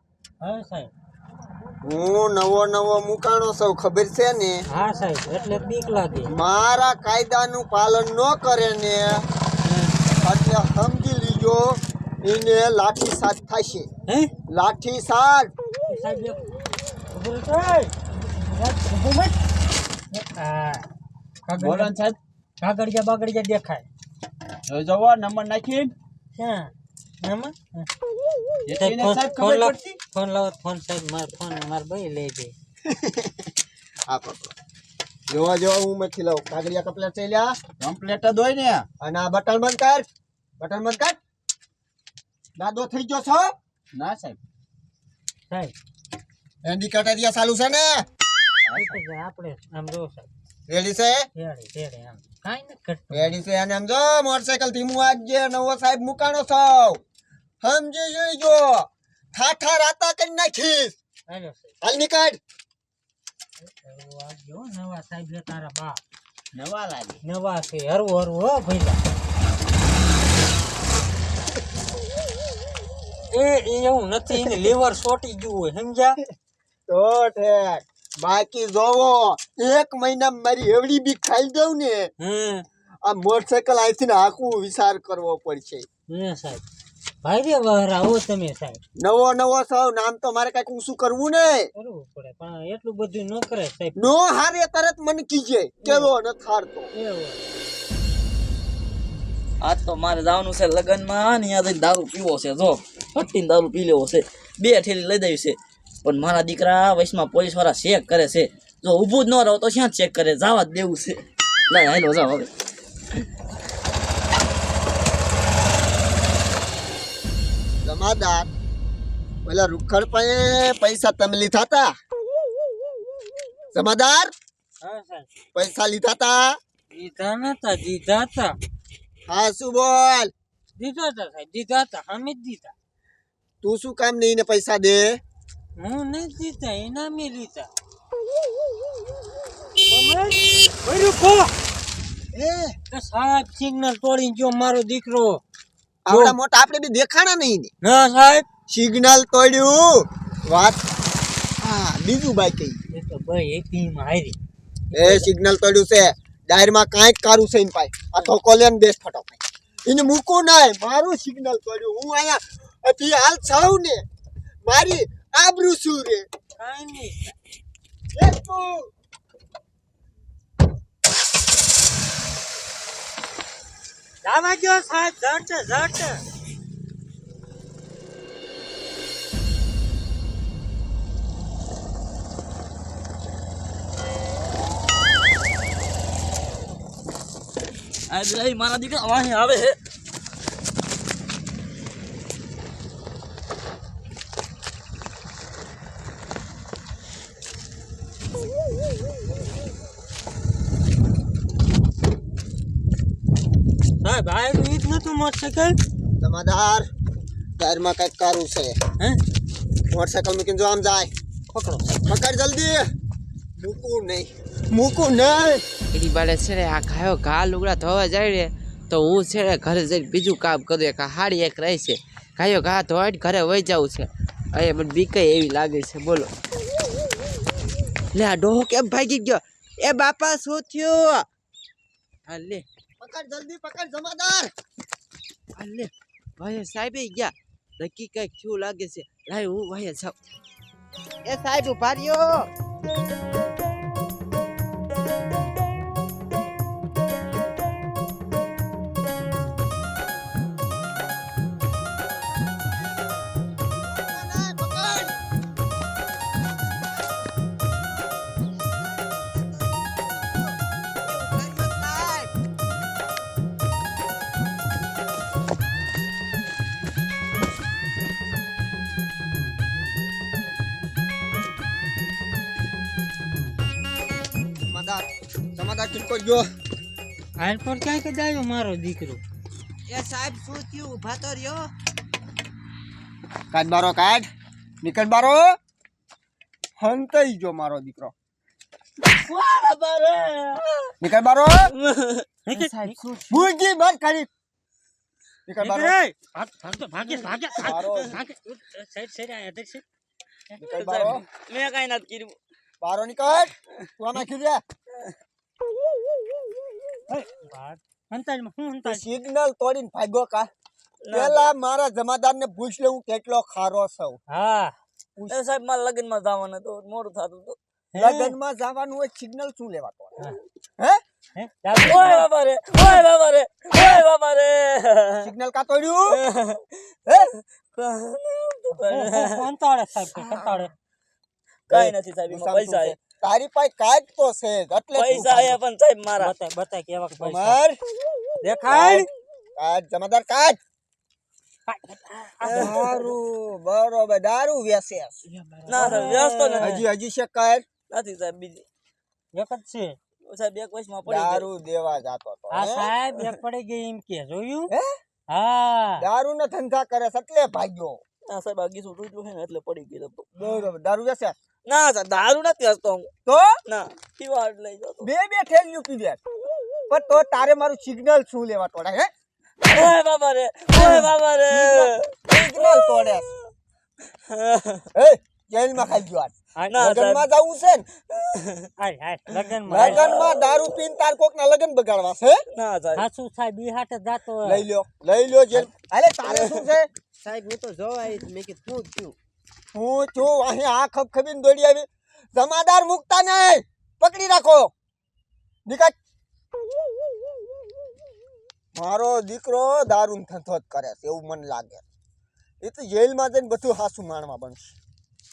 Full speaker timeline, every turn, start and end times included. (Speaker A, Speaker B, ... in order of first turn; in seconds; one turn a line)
Speaker A: 0.4-0.9
Speaker B: 1.8-4.6
Speaker A: 4.7-6.3
Speaker B: 6.3-9.3
Speaker A: 9.7-9.9
Speaker B: 10.2-13.9
Speaker B: 14.5-15.5
Speaker A: 15.9-16.4
Speaker A: 17.1-19.4
Speaker A: 20.1-20.9
Speaker A: 21.5-21.9
Speaker C: 21.5-22.2
Speaker A: 22.6-23.9
Speaker C: 24.7-25.9
Speaker A: 26.4-26.7
Speaker A: 27.2-27.9
Speaker C: 28.7-30.0
Speaker A: 28.8-32.5
Speaker B: 32.9-33.5
Speaker B: 34.1-34.5
Speaker B: 35.3-37.6
Speaker C: 37.8-38.9
Speaker B: 39.0-40.1
Speaker B: 40.6-41.2
Speaker B: 42.6-43.5
Speaker C: 43.9-44.4
Speaker A: 45.5-45.7
Speaker B: 46.6-48.1
Speaker C: 48.7-49.0
Speaker A: 48.7-50.3
Speaker B: 50.7-51.3
Speaker A: 51.4-53.4
Speaker B: 53.1-57.0
Speaker B: 57.6-60.9
Speaker A: 61.3-61.7
Speaker B: 61.8-62.4
Speaker A: 63.6-66.0
Speaker C: 66.6-67.2
Speaker A: 67.2-69.0
Speaker A: 73.3-76.2
Speaker B: 76.9-82.1
Speaker A: 82.2-82.7
Speaker B: 83.0-85.9
Speaker A: 86.1-86.6
Speaker A: 87.2-88.8
Speaker B: 89.0-91.7
Speaker A: 91.8-94.1
Speaker B: 94.0-96.9
Speaker A: 96.9-97.4
Speaker D: 99.6-112.5
Speaker B: 117.8-118.5
Speaker B: 119.5-122.0
Speaker B: 123.7-124.3
Speaker A: 124.8-125.3
Speaker B: 125.5-126.6
Speaker A: 126.9-128.6
Speaker B: 129.3-130.3
Speaker A: 130.8-132.7
Speaker B: 133.6-135.2
Speaker A: 135.8-137.7
Speaker A: 139.8-141.5
Speaker B: 142.3-142.8
Speaker A: 142.9-145.4
Speaker B: 146.1-147.7
Speaker A: 146.1-146.4
Speaker A: 147.8-148.5
Speaker B: 148.7-150.8
Speaker B: 151.6-152.8
Speaker A: 152.9-154.4
Speaker A: 154.9-155.3
Speaker B: 154.9-164.0
Speaker B: 164.7-166.3
Speaker A: 166.6-167.3
Speaker B: 168.1-168.9
Speaker A: 174.2-176.2
Speaker D: 188.1-189.8
Speaker A: 204.0-205.8
Speaker B: 206.2-206.9
Speaker B: 207.6-208.8
Speaker B: 209.9-212.9
Speaker B: 213.6-215.6
Speaker E: 215.9-226.3
Speaker E: 228.1-231.3
Speaker E: 232.3-232.7
Speaker B: 233.0-234.5
Speaker E: 235.6-240.3
Speaker E: 241.2-242.5
Speaker E: 254.1-255.1
Speaker B: 254.4-254.9
Speaker E: 256.8-257.2
Speaker E: 258.6-262.3
Speaker B: 274.7-276.4
Speaker A: 277.4-279.2
Speaker E: 279.9-281.7
Speaker B: 283.5-284.3
Speaker B: 284.8-285.6
Speaker B: 286.8-288.1
Speaker D: 289.1-290.9
Speaker B: 291.0-291.7
Speaker D: 291.8-292.2
Speaker A: 292.5-293.0
Speaker E: 292.5-293.3
Speaker B: 293.3-294.3
Speaker B: 295.5-296.0
Speaker A: 295.6-299.8
Speaker B: 297.6-298.2
Speaker D: 300.6-302.4
Speaker B: 300.6-301.2
Speaker B: 302.8-304.6
Speaker A: 307.1-309.1
Speaker B: 308.9-310.5
Speaker D: 311.0-311.5
Speaker B: 311.1-314.2
Speaker A: 314.3-314.8
Speaker D: 315.3-317.6
Speaker A: 317.9-318.3
Speaker B: 318.0-320.2
Speaker A: 321.4-322.3
Speaker D: 321.8-325.3
Speaker B: 325.2-326.2
Speaker D: 326.1-329.4
Speaker A: 328.9-330.7
Speaker B: 330.2-330.6
Speaker D: 331.7-333.0
Speaker B: 331.7-335.6
Speaker D: 334.9-336.3
Speaker A: 336.2-337.6
Speaker B: 337.2-337.8
Speaker A: 338.4-339.1
Speaker B: 338.7-340.6
Speaker A: 341.7-343.1
Speaker D: 342.4-342.7
Speaker B: 342.5-345.2
Speaker E: 345.3-345.9
Speaker D: 345.7-346.8
Speaker A: 345.7-346.8
Speaker B: 346.6-347.6
Speaker D: 347.9-348.7
Speaker A: 349.3-350.0
Speaker D: 350.2-351.5
Speaker B: 351.1-352.9
Speaker A: 352.5-354.7
Speaker A: 355.3-356.1
Speaker B: 356.0-358.0
Speaker D: 358.3-360.7
Speaker B: 360.4-361.4
Speaker D: 361.7-363.1
Speaker B: 363.3-363.5
Speaker D: 363.6-365.1
Speaker B: 365.0-366.2
Speaker B: 366.9-369.1
Speaker D: 369.6-372.0
Speaker B: 371.5-373.3
Speaker D: 372.6-373.3
Speaker D: 374.3-374.9
Speaker B: 374.9-377.9
Speaker A: 376.6-376.8
Speaker D: 376.7-377.3
Speaker D: 378.2-378.7
Speaker A: 378.8-380.1
Speaker B: 379.7-382.4
Speaker D: 379.8-380.5
Speaker D: 382.5-383.1
Speaker A: 383.0-384.7
Speaker B: 384.4-386.9
Speaker D: 386.2-386.6
Speaker E: 387.2-389.1
Speaker B: 389.7-394.7
Speaker B: 395.7-395.9
Speaker B: 398.8-401.8
Speaker B: 402.6-404.8